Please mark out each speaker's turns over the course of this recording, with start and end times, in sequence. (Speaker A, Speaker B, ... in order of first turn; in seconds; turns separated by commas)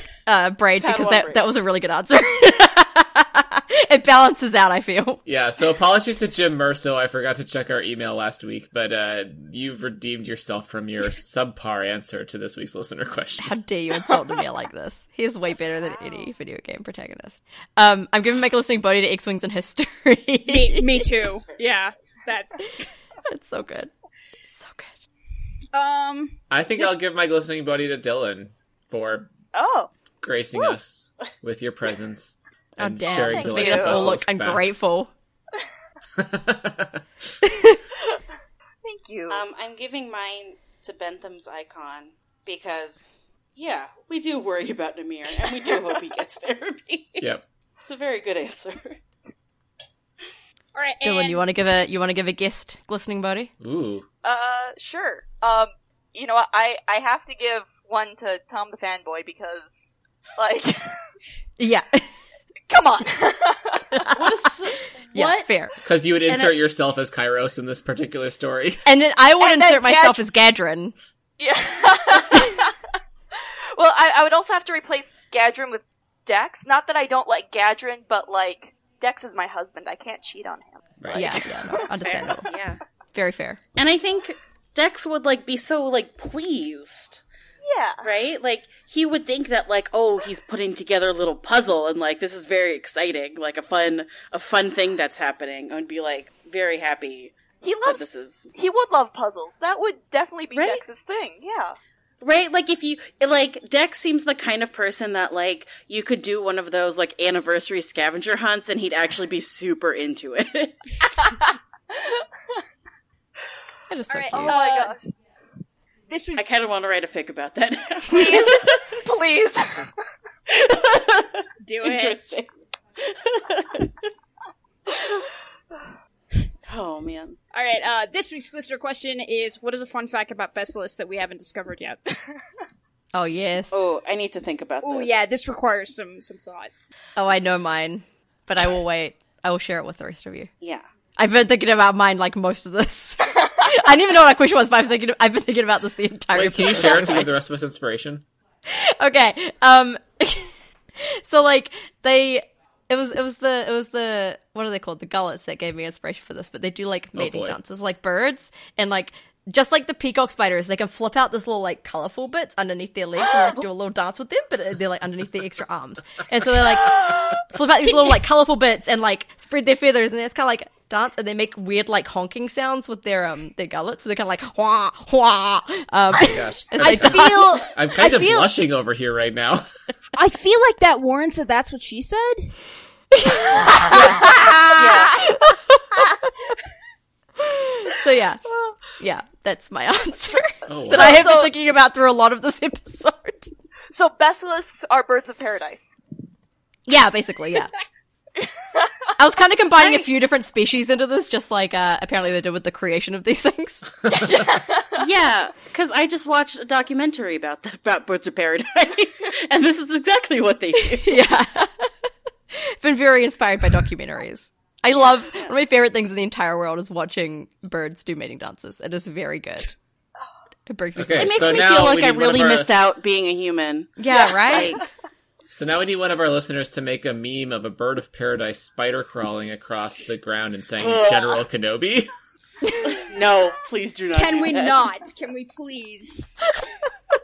Speaker A: 0.2-5.2, Speaker B: 0.8-1.4, Speaker C: 5.2-13.5, Speaker A: 13.4-21.1, Speaker D: 14.1-14.3, Speaker E: 20.5-22.7, Speaker A: 23.3-23.9, Speaker A: 24.5-25.0, Speaker E: 25.7-27.0, Speaker C: 26.5-29.3, Speaker D: 29.5-29.9, Speaker C: 30.2-34.8, Speaker A: 32.8-35.1, Speaker D: 33.2-34.1, Speaker C: 36.1-37.0, Speaker A: 37.4-37.8, Speaker D: 38.8-39.4, Speaker B: 39.3-47.3, Speaker B: 47.8-49.0, Speaker E: 50.7-51.4, Speaker A: 51.0-53.5, Speaker C: 53.6-54.0, Speaker D: 54.2-61.1, Speaker A: 61.6-62.1, Speaker D: 62.7-63.8, Speaker A: 63.9-64.2, Speaker B: 64.1-65.5, Speaker A: 65.1-65.7, Speaker C: 65.8-68.8, Speaker B: 66.2-66.7, Speaker A: 68.8-70.9, Speaker D: 69.4-70.2, Speaker D: 71.4-72.7, Speaker D: 73.8-81.8, Speaker C: 81.0-81.3, Speaker A: 81.1-82.5, Speaker B: 81.8-82.8, Speaker A: 83.1-83.6, Speaker B: 83.8-87.2, Speaker D: 87.6-88.1, Speaker B: 88.0-98.5, Speaker D: 97.6-101.8, Speaker B: 100.5-100.8, Speaker B: 102.2-110.9, Speaker A: 113.9-114.6, Speaker E: 114.1-115.0, Speaker D: 114.4-115.1, Speaker E: 116.1-116.4, Speaker B: 116.4-118.8, Speaker D: 118.1-119.9, Speaker B: 120.5-122.5, Speaker E: 121.6-122.2, Speaker B: 123.0-123.9, Speaker B: 126.7-127.4, Speaker E: 127.5-132.0, Speaker A: 133.1-133.9, Speaker B: 133.7-135.1, Speaker E: 134.8-136.7, Speaker A: 137.2-140.5, Speaker A: 141.2-147.3, Speaker C: 146.3-148.2, Speaker A: 148.7-177.7, Speaker C: 157.2-157.6, Speaker D: 166.9-167.3, Speaker C: 176.1-179.7, Speaker E: 176.8-178.5, Speaker E: 180.1-182.5, Speaker A: 183.1-186.1, Speaker B: 183.9-185.2, Speaker A: 187.4-193.5, Speaker C: 190.7-191.2, Speaker D: 190.7-191.5, Speaker D: 193.9-196.0, Speaker A: 196.9-197.7, Speaker A: 199.2-203.8, Speaker D: 199.8-200.0, Speaker D: 204.1-205.0, Speaker B: 205.0-211.2, Speaker A: 210.8-211.9, Speaker A: 212.5-219.7, Speaker A: 220.7-221.6, Speaker C: 220.9-222.7, Speaker B: 221.2-224.8, Speaker A: 224.0-224.8, Speaker C: 225.5-232.1, Speaker B: 230.8-231.4, Speaker B: 232.8-234.8, Speaker E: 234.1-236.3